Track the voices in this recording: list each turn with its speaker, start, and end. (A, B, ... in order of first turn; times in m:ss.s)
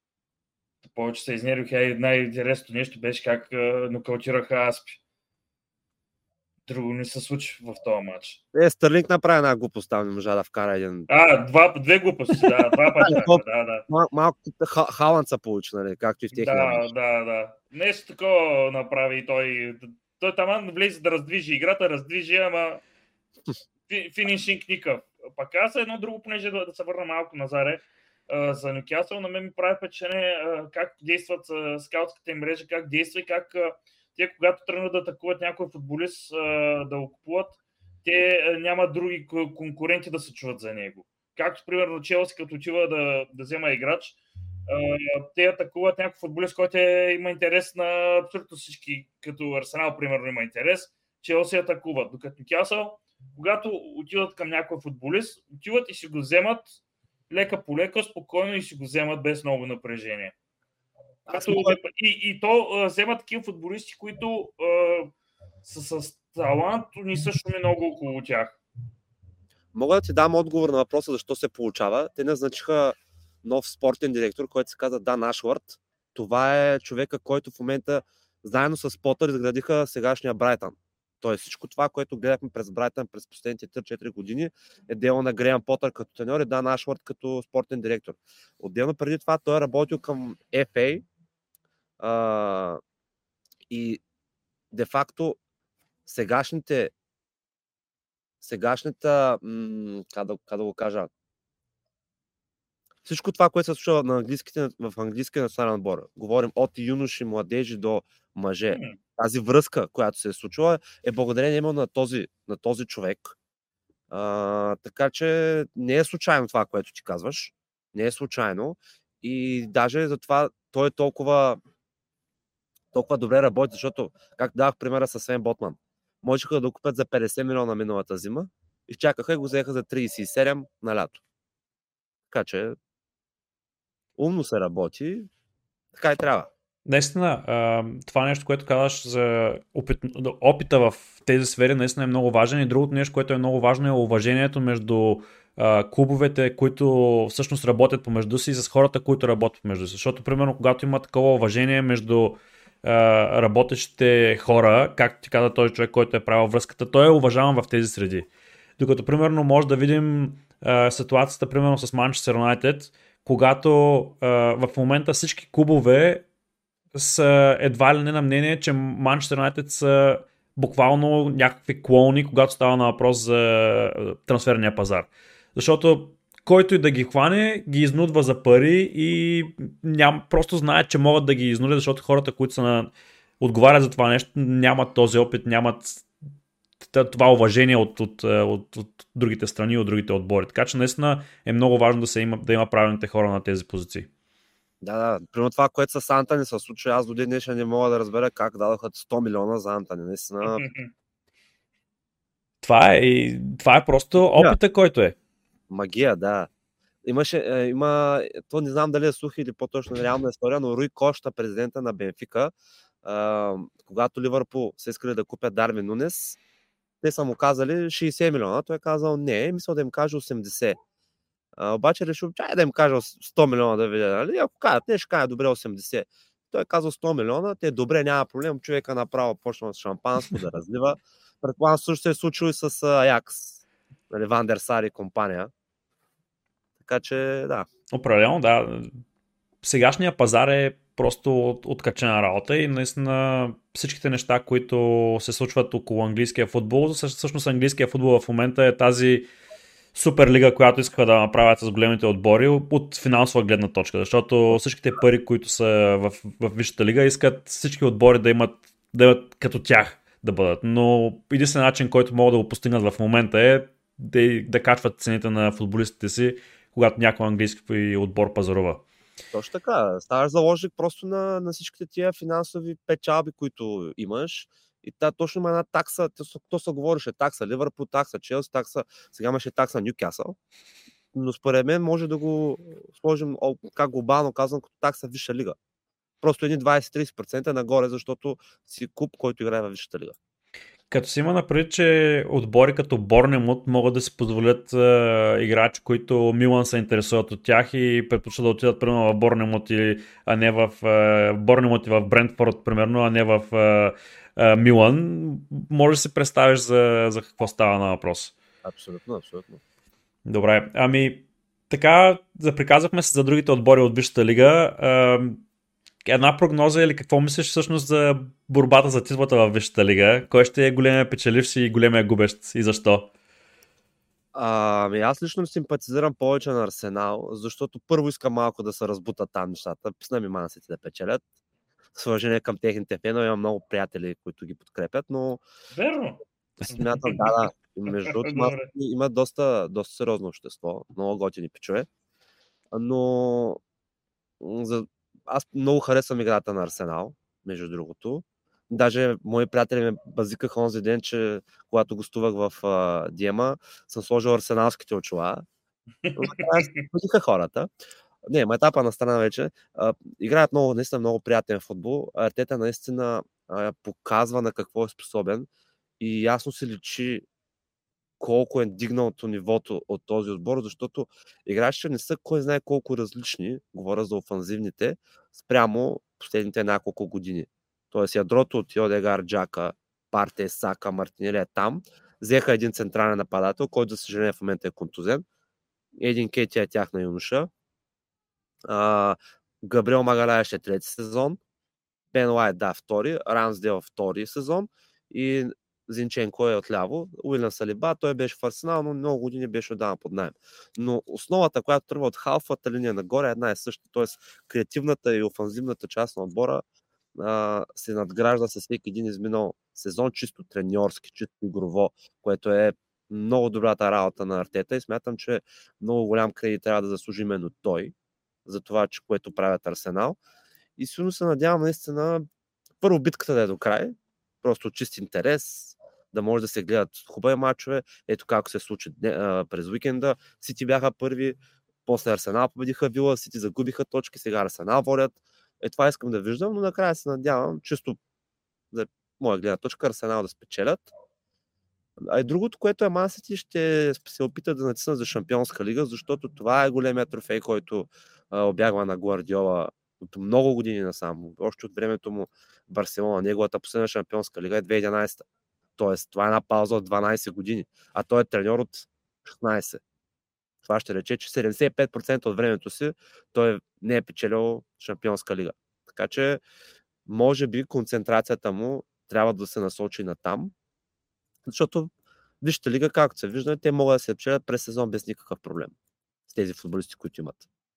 0:00.8-0:05.0 A
0:06.7-0:08.4 A
0:08.5-0:11.1 B
0:11.1-0:13.9 A
0:13.0-0:16.9 B
0:16.3-0:22.8 A
0:23.9-0:56.8 A
0:57.3-1:00.3 A
1:01.3-1:01.8 B
1:01.3-1:05.1 A
1:05.6-1:08.6 A
1:09.7-1:31.0 B
1:32.0-1:32.8 B
1:33.7-1:34.0 B
1:34.7-1:35.4 B
1:36.1-1:36.9 B
1:38.4-1:41.1 B
1:43.0-1:53.4 B
1:48.7-1:49.0 A
1:54.1-2:01.6 B
2:02.9-2:11.2 B
2:12.3-2:12.8 B
2:14.2-2:15.3 B
2:15.9-2:16.5 B
2:16.9-2:38.3 C
2:38.8-2:46.2 C
2:46.9-3:06.1 C
3:06.8-3:14.1 C
3:14.8-3:20.6 B
3:20.4-3:20.9 A
3:22.6-3:25.2 C
3:25.7-3:26.5 B
3:27.0-3:32.5 B
3:33.0-3:36.4 B
3:37.0-3:40.8 B
3:41.6-3:55.5 B
3:56.8-3:57.7 B
3:57.9-3:59.0 C
3:59.6-4:09.3 C
4:10.0-4:28.8 C
4:29.3-4:40.4 B
4:41.1-4:45.6 B
4:46.2-4:50.2 B
4:50.9-5:08.4 C
5:08.6-5:09.6 B
5:10.3-5:15.4 C
5:16.1-5:23.1 C
5:24.3-5:31.2 B
5:31.9-5:35.4 B
5:35.7-5:38.7 A
5:36.6-5:41.9 B
5:42.7-5:43.6 B
5:44.4-5:55.4 B
5:56.0-5:56.8 A
5:56.2-5:57.7 B
5:58.3-6:05.5 B
6:06.0-6:07.2 B
6:08.2-6:25.2 B
6:26.0-6:27.5 B
6:28.6-6:31.4 B
6:32.1-6:46.6 B
6:47.2-6:57.9 B
6:58.5-7:00.2 B
7:00.8-7:02.2 B
7:02.8-7:18.0 B
7:18.7-7:20.9 B
7:22.0-7:35.2 B
7:35.8-7:39.8 B
7:40.6-7:46.4 B
7:47.1-7:50.5 B
7:51.4-7:51.9 B
7:52.4-7:55.7 B
7:56.3-7:57.4 B